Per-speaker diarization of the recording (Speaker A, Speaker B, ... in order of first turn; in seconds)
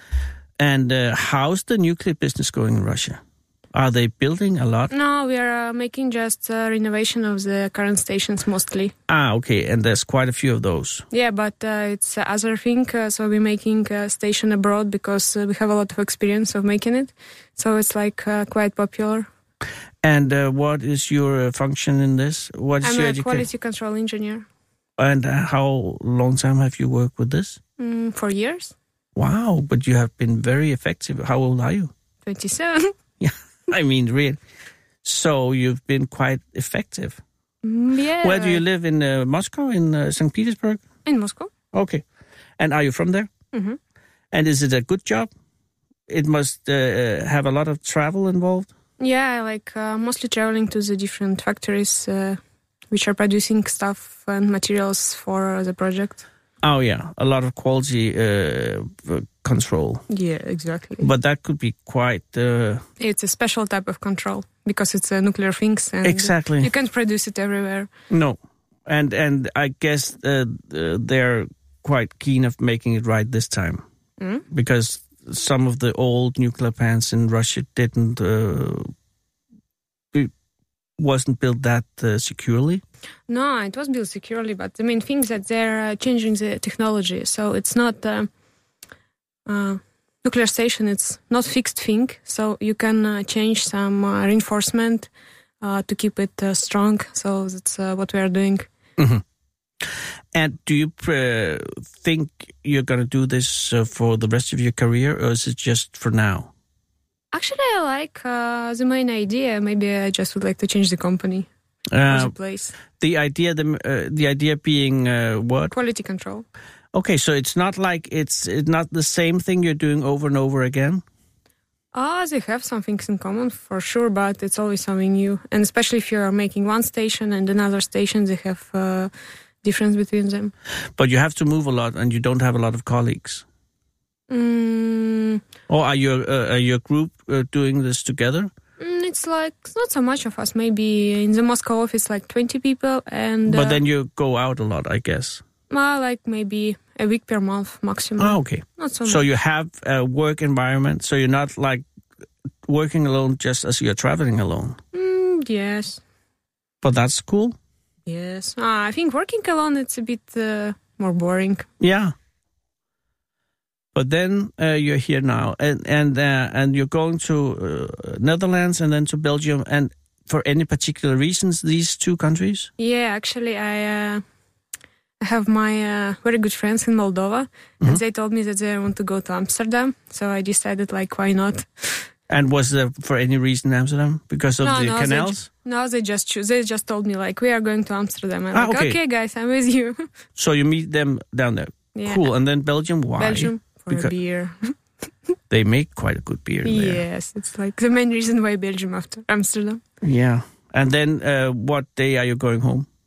Speaker A: 0.6-3.2, 3.7-4.9, 9.1-11.1, 20.0-23.5, 25.0-27.6, 29.1-31.9, 33.2-34.4, 35.0-37.2, 38.2-40.8, 41.7-42.0, 42.6-43.3, 44.3-45.3, 46.1-48.7, 56.6-60.0, 61.0-62.8, 66.0-66.7, 68.1-73.8, 74.5-78.9, 81.0-82.8, 99.0-99.2, 100.3-106.5, 111.9-112.3, 112.9-115.7, 116.9-121.0, 131.0-133.4, 135.7-138.5, 143.5-145.4, 148.2-151.8, 152.6-154.8, 156.8-157.6, 161.8-162.1, 163.9-172.7, 182.3-185.5, 188.5-189.0, 190.3-194.1, 195.5-197.0, 200.0-202.9
Speaker B: 4.9-8.9, 11.1-19.3, 22.8-24.4, 27.8-28.7, 32.2-32.9, 37.6-38.6, 41.0-41.5, 43.5-43.8, 49.0-52.4, 52.9-56.2, 60.1-61.1, 63.0-67.9, 74.2-74.4, 83.3-88.3, 89.5-95.1, 95.6-98.7, 107.3-111.5, 112.1-112.7, 115.7-116.5, 121.9-130.5, 134.3-135.4, 138.8-143.8, 145.7-149.2, 154.9-156.0, 158.1-161.7, 172.8-174.2, 175.2-182.1, 184.6-190.1, 191.9-192.2, 193.2-194.7, 196.6-199.8